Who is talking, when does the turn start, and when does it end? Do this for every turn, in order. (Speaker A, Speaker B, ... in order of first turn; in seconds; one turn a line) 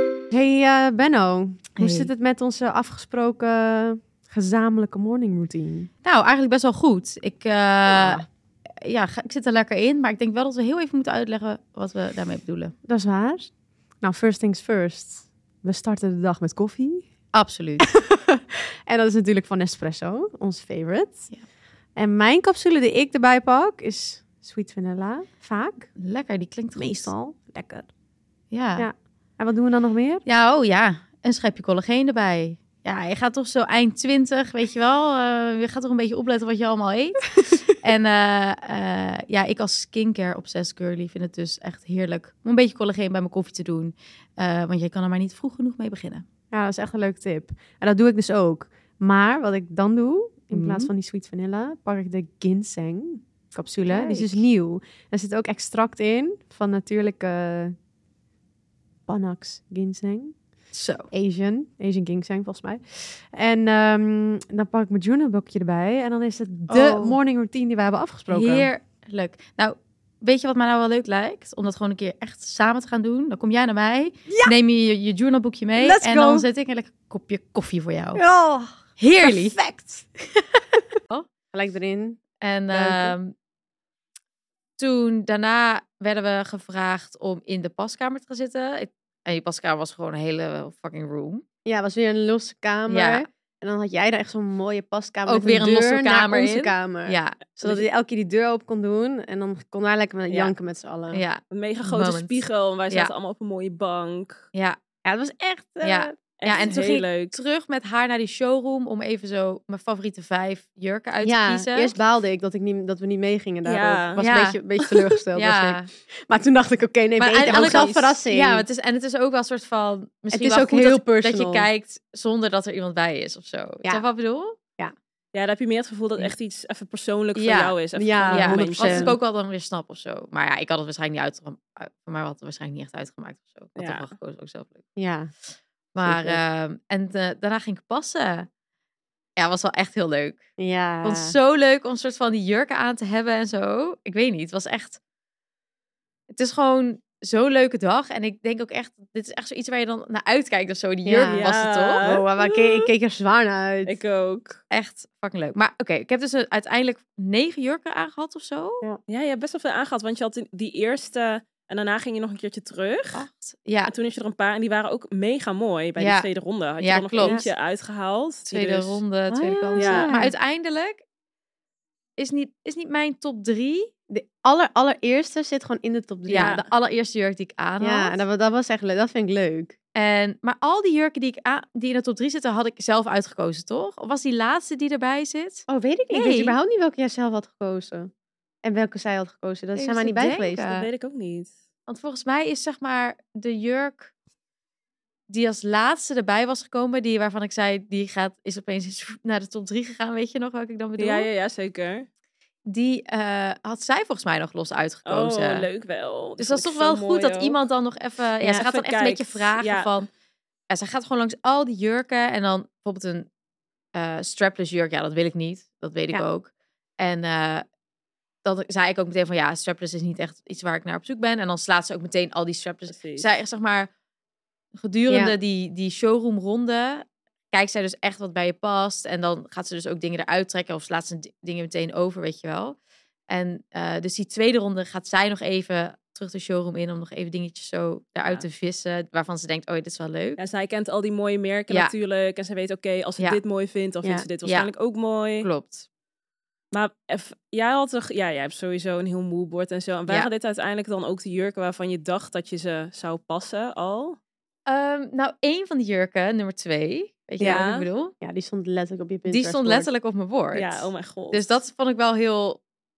Speaker A: 0.3-5.9
Speaker B: 1.8-2.1
Speaker B: 6.0-8.2
Speaker A: 7.9-8.3
Speaker B: 8.8-12.7
Speaker A: 12.8-17.1
Speaker B: 17.3-17.9
Speaker A: 17.8-21.3
Speaker A: 22.0-25.9
Speaker B: 26.0-27.1
Speaker A: 26.8-27.9
Speaker B: 28.5-28.9
Speaker A: 28.8-30.2
Speaker B: 30.2-46.2
Speaker A: 46.5-57.8
Speaker B: 50.5-50.9
Speaker B: 53.9-54.4
Speaker A: 59.1-60.4
Speaker B: 60.7-61.1
Speaker A: 61.1-68.7
Speaker B: 66.7-67.2
Speaker B: 68.3-78.2
Speaker A: 74.3-74.5
Speaker A: 75.8-76.5
Speaker A: 78.2-80.1
Speaker B: 79.0-79.6
Speaker B: 80.3-81.3
Speaker A: 81.5-82.2
Speaker B: 82.4-83.3
Speaker A: 82.7-83.2
Speaker B: 84.8-91.4
Speaker A: 91.7-101.2
Speaker B: 92.9-93.3
Speaker B: 95.3-97.8
Speaker B: 101.1-103.1
Speaker C: 101.5-104.5
Speaker B: 104.5-104.8
Speaker A: 105.0-106.2
Speaker B: 105.8-112.0
Speaker C: 106.4-107.4
Speaker A: 111.2-118.7
Speaker C: 113.7-114.2
Speaker B: 114.2-114.6
Speaker B: 115.3-115.9
Speaker B: 117.2-124.6
Speaker C: 117.4-118.2
Speaker A: 120.3-121.7
Speaker C: 125.3-129.2
Speaker B: 127.3-127.8
Speaker A: 128.0-129.2
Speaker B: 128.3-134.8
Speaker C: 133.8-134.1
Speaker A: 135.0-135.3
Speaker B: 135.9-138.5
Speaker A: 136.0-136.4
Speaker B: 139.4-140.4
Speaker A: 140.6-141.4
Speaker B: 141.0-145.0
Speaker B: 146.3-152.1
Speaker A: 151.1-151.5
Speaker C: 151.3-152.3
Speaker A: 152.0-154.0
Speaker C: 153.9-154.6
Speaker B: 154.7-158.8
Speaker C: 159.1-163.3
Speaker B: 163.1-163.9
Speaker C: 163.9-169.0
Speaker B: 166.0-166.3
Speaker B: 166.8-167.4
Speaker A: 167.2-167.5
Speaker B: 168.5-171.0
Speaker A: 169.3-170.3
Speaker C: 169.8-170.1
Speaker B: 172.2-173.9
Speaker A: 174.1-176.6
Speaker B: 176.3-178.2
Speaker C: 176.4-176.7
Speaker A: 177.8-179.8
Speaker B: 179.9-186.6
Speaker A: 185.7-188.1
Speaker A: 188.6-190.7
Speaker B: 189.8-190.9
Speaker C: 190.7-191.6
Speaker B: 191.9-194.1
Speaker B: 195.3-201.3
Speaker C: 201.0-202.1
Speaker B: 202.7-205.7
Speaker C: 205.1-207.6
Speaker B: 206.4-210.1
Speaker C: 208.4-209.9
Speaker B: 210.7-213.3
Speaker B: 213.9-217.7
Speaker B: 218.4-223.9
Speaker C: 222.9-223.3
Speaker B: 224.8-232.8
Speaker A: 225.1-225.3
Speaker B: 233.3-240.4
Speaker C: 240.4-245.5
Speaker B: 244.4-244.7
Speaker B: 245.4-245.9
Speaker C: 246.7-254.2
Speaker B: 254.7-258.1
Speaker A: 257.4-257.6
Speaker C: 257.4-257.9
Speaker A: 258.2-259.9
Speaker B: 259.3-262.6
Speaker C: 260.5-261.6